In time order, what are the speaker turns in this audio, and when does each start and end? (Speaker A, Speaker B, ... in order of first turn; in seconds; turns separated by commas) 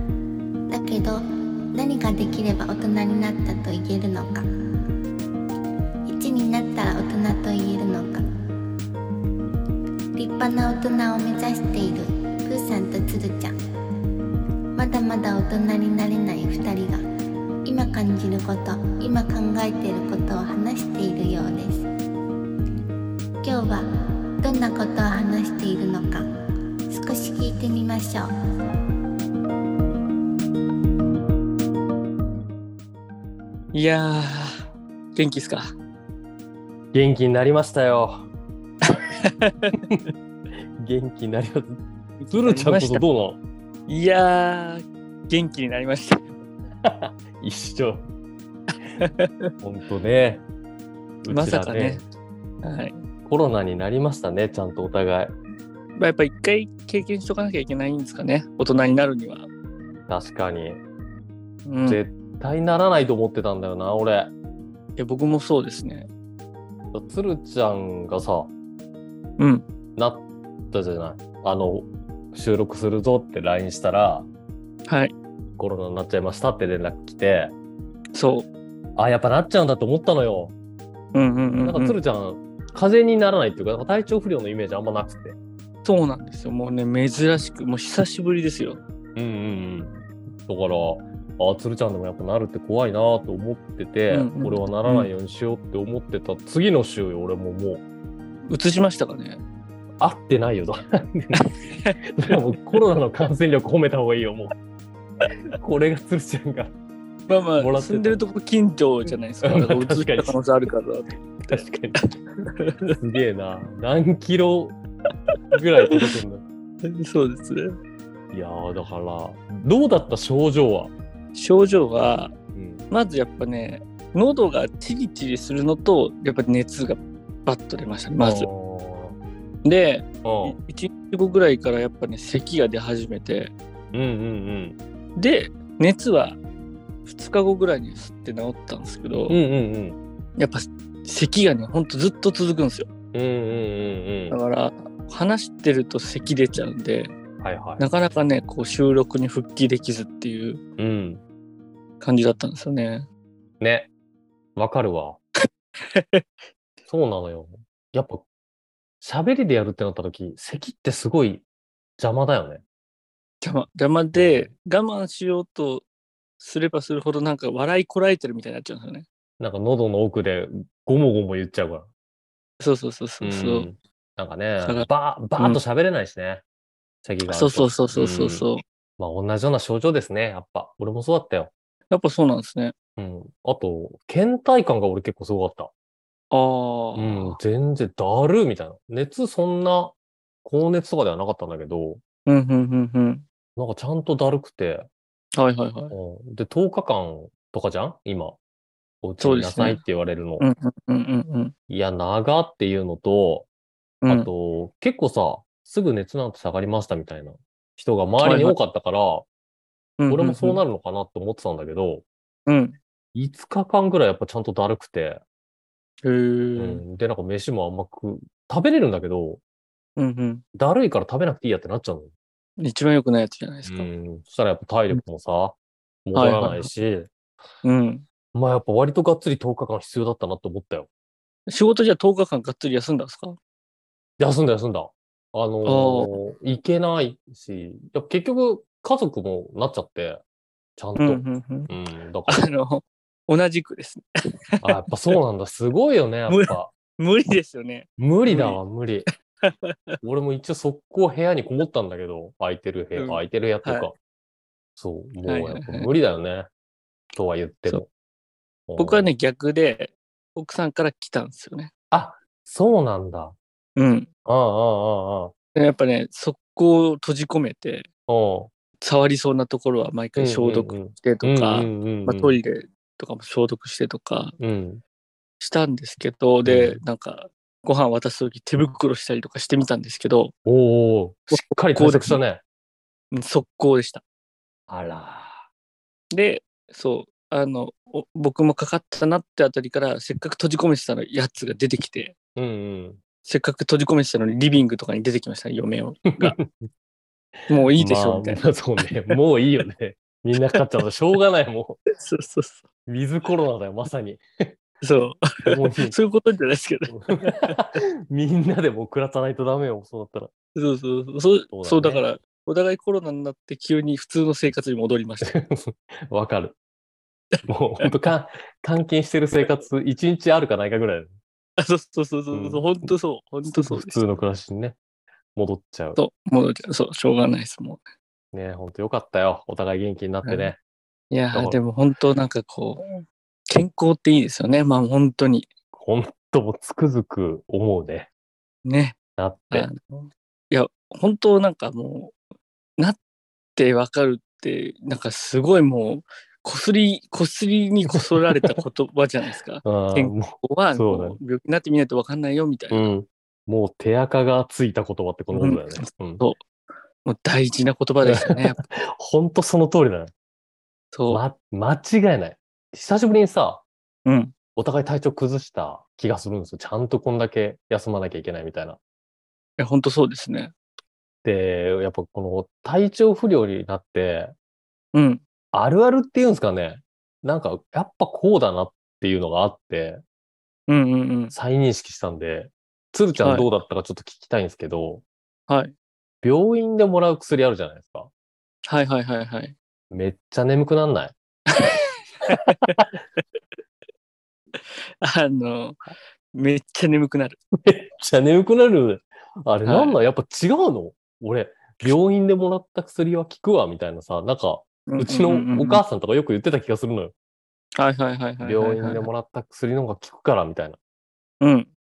Speaker A: 0.7-1.2, Speaker A: 1.7-4.5, Speaker A: 6.1-8.2, Speaker A: 10.2-13.6, Speaker A: 14.8-17.0, Speaker A: 17.7-21.9, Speaker A: 23.4-23.9, Speaker A: 24.4-26.2, Speaker A: 26.9-28.3, Speaker B: 33.7-35.7, Speaker C: 36.9-38.3, Speaker B: 38.9-39.9, Speaker C: 40.8-43.4, Speaker B: 42.2-43.0, Speaker B: 43.9-46.4, Speaker C: 46.8-48.1, Speaker B: 49.0-49.5, Speaker C: 49.6-50.4, Speaker C: 51.2-52.0, Speaker B: 51.3-52.0, Speaker B: 52.6-53.0, Speaker C: 53.3-55.3, Speaker B: 56.0-59.5, Speaker C: 60.1-60.8, Speaker B: 61.7-62.0, Speaker C: 61.9-64.3, Speaker B: 65.0-66.1, Speaker C: 66.9-68.5, Speaker B: 69.4-69.7, Speaker C: 70.0-74.3, Speaker B: 74.9-75.1, Speaker C: 75.6-77.5, Speaker B: 78.2-78.5, Speaker C: 79.0-80.5, Speaker B: 81.1-82.0, Speaker C: 81.6-85.4, Speaker B: 85.8-88.8, Speaker C: 89.2-89.9, Speaker C: 90.5-97.8, Speaker B: 94.1-95.1, Speaker B: 98.5-99.4, Speaker C: 100.0-101.4, Speaker B: 101.4-102.4, Speaker C: 102.2-104.5, Speaker C: 105.6-106.7, Speaker B: 107.3-111.6, Speaker C: 107.6-108.2, Speaker C: 109.4-110.4, Speaker C: 111.5-112.1, Speaker B: 112.6-113.0, Speaker C: 113.0-114.8, Speaker C: 115.5-116.4, Speaker B: 116.8-117.8, Speaker C: 118.3-120.9, Speaker B: 121.3-122.3, Speaker C: 122.5-122.8, Speaker B: 122.9-128.5, Speaker C: 128.2-129.2, Speaker B: 129.7-133.5, Speaker C: 130.2-130.6, Speaker C: 133.9-134.8, Speaker B: 135.2-136.4, Speaker B: 137.1-139.4, Speaker C: 139.3-140.0, Speaker B: 140.4-142.9, Speaker C: 143.1-144.4, Speaker B: 144.3-147.2, Speaker C: 147.4-147.9, Speaker B: 147.8-150.6, Speaker C: 150.8-151.2, Speaker B: 152.0-153.1, Speaker C: 153.6-153.9, Speaker C: 154.6-155.2, Speaker B: 155.8-156.2, Speaker C: 156.9-158.2, Speaker C: 159.0-161.4, Speaker C: 162.0-162.6, Speaker B: 163.4-165.8, Speaker C: 164.1-164.5, Speaker B: 166.4-169.1, Speaker C: 169.4-171.9, Speaker B: 172.6-173.7, Speaker C: 173.2-176.4, Speaker B: 174.6-175.6, Speaker C: 177.1-178.4, Speaker B: 177.3-178.6, Speaker C: 179.0-181.5, Speaker B: 181.9-182.8, Speaker C: 183.0-185.7, Speaker B: 186.3-187.4, Speaker C: 187.0-192.0, Speaker B: 192.3-193.2, Speaker C: 193.6-194.9, Speaker B: 195.4-196.0, Speaker C: 195.9-198.4, Speaker C: 199.0-200.4, Speaker B: 199.2-199.8, Speaker B: 200.4-201.5, Speaker C: 201.7-203.5, Speaker B: 204.0-204.3, Speaker C: 204.1-209.3, Speaker B: 208.2-208.6, Speaker B: 210.0-210.6, Speaker C: 210.1-212.1, Speaker B: 212.5-212.8, Speaker C: 213.2-215.2, Speaker B: 216.0-216.8, Speaker C: 216.6-219.4, Speaker B: 220.0-220.4, Speaker C: 220.6-222.1, Speaker B: 222.6-223.9, Speaker C: 223.7-227.1, Speaker B: 226.2-226.7, Speaker B: 227.6-228.1, Speaker C: 228.3-230.9, Speaker B: 231.5-233.4, Speaker C: 234.2-240.2, Speaker B: 235.7-236.1, Speaker C: 240.8-242.4, Speaker B: 241.0-241.7, Speaker B: 242.3-244.1, Speaker C: 244.6-246.7, Speaker B: 246.3-248.6, Speaker C: 248.0-249.1, Speaker B: 249.4-250.0, Speaker C: 250.0-253.9, Speaker B: 253.0-253.9, Speaker C: 254.8-256.5, Speaker B: 255.2-255.9, Speaker C: 257.1-257.9, Speaker C: 258.7-259.1, Speaker B: 258.8-261.7, Speaker C: 261.9-263.4, Speaker B: 263.8-264.1, Speaker C: 264.3-265.3, Speaker B: 265.6-267.9, Speaker C: 268.1-268.5, Speaker B: 268.8-274.4, Speaker C: 270.2-272.4, Speaker C: 274.4-274.8, Speaker B: 275.4-280.3, Speaker C: 276.4-276.8, Speaker C: 280.4-282.4, Speaker B: 281.3-282.2, Speaker B: 283.1-284.0, Speaker C: 284.7-285.4, Speaker B: 286.1-292.1, Speaker C: 292.4-293.0, Speaker B: 293.2-296.4, Speaker C: 296.1-296.7, Speaker B: 297.5-299.2, Speaker C: 297.8-301.8, Speaker B: 301.9-302.7, Speaker C: 302.9-304.5, Speaker B: 304.8-307.6, Speaker C: 305.5-306.0, Speaker C: 306.9-310.3, Speaker B: 310.6-315.3, Speaker C: 311.5-312.0, Speaker C: 315.2-316.6, Speaker B: 317.3-317.9, Speaker C: 317.5-321.1, Speaker B: 321.6-324.0, Speaker C: 322.3-322.9, Speaker C: 323.6-324.8, Speaker C: 325.4-326.0, Speaker B: 326.0-327.9, Speaker C: 328.3-330.6, Speaker B: 330.2-330.5, Speaker B: 331.1-335.5, Speaker C: 331.3-331.6, Speaker C: 335.7-338.1, Speaker B: 338.6-339.0, Speaker C: 339.2-339.7, Speaker B: 339.5-342.1, Speaker B: 343.6-352.9, Speaker C: 347.9-348.6, Speaker C: 349.6-351.2, Speaker C: 352.7-356.2, Speaker B: 355.3-356.4, Speaker B: 357.1-358.6, Speaker C: 358.1-360.1, Speaker B: 360.9-361.2, Speaker C: 361.1-363.6, Speaker B: 364.1-364.3, Speaker C: 364.6-368.8, Speaker B: 369.6-370.5, Speaker C: 371.2-374.3, Speaker B: 374.9-375.2, Speaker C: 375.5-380.0, Speaker B: 380.7-381.3, Speaker C: 381.3-385.0, Speaker B: 383.2-383.5, Speaker B: 385.5-385.7, Speaker C: 386.2-388.1, Speaker B: 388.7-389.6, Speaker C: 389.9-391.1, Speaker B: 391.6-393.2, Speaker B: 394.6-397.4, Speaker C: 397.6-407.1, Speaker B: 399.6-400.0, Speaker B: 404.9-405.8, Speaker B: 407.8-409.1, Speaker C: 408.4-410.8, Speaker B: 411.4-411.7